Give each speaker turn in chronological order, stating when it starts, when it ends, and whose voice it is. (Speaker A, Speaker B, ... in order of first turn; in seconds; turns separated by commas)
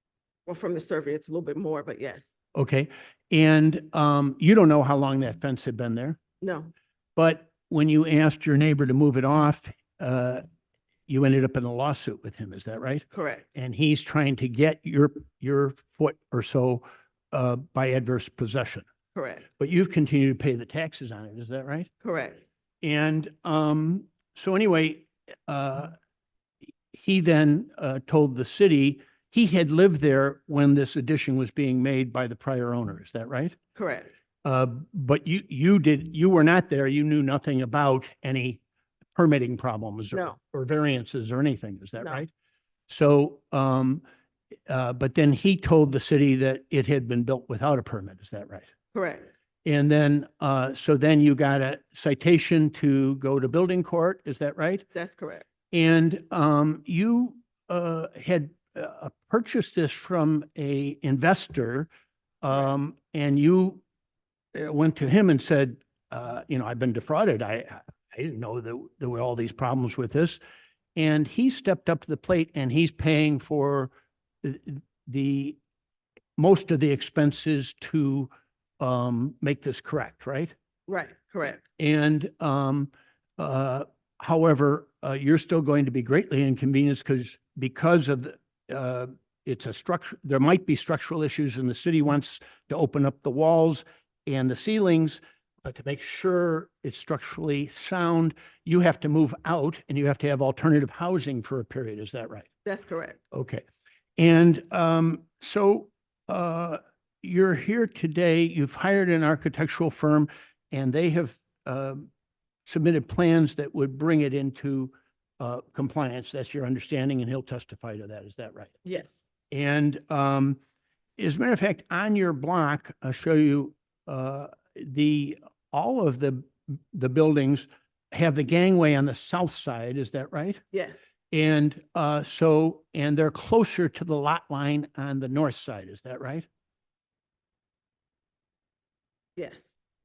Speaker A: 0.5-2.3, Speaker B: 2.5-6.2, Speaker A: 6.4-6.7, Speaker B: 7.2-10.4, Speaker B: 11.1-18.9, Speaker A: 13.1-13.5, Speaker A: 19.1-19.5, Speaker B: 19.6-21.9, Speaker A: 22.0-22.4, Speaker B: 22.8-25.9, Speaker B: 26.9-33.6, Speaker A: 33.8-34.1, Speaker B: 34.4-38.6, Speaker B: 39.2-42.3, Speaker A: 40.1-40.4, Speaker B: 42.9-44.0, Speaker B: 44.7-48.7, Speaker A: 48.9-49.3, Speaker B: 49.6-54.9, Speaker A: 54.9-55.5, Speaker B: 55.7-61.9, Speaker B: 62.4-63.8, Speaker B: 64.5-70.4, Speaker B: 71.0-73.9, Speaker B: 74.4-75.6, Speaker B: 76.4-78.3, Speaker B: 78.8-80.5, Speaker A: 80.9-81.6, Speaker B: 81.8-102.5, Speaker A: 102.7-103.2, Speaker B: 103.3-103.6, Speaker B: 104.2-112.1, Speaker B: 112.7-118.8, Speaker A: 118.8-119.1, Speaker B: 119.5-120.6, Speaker B: 121.2-130.6, Speaker A: 130.7-131.0, Speaker B: 131.3-136.5, Speaker A: 139.4-139.7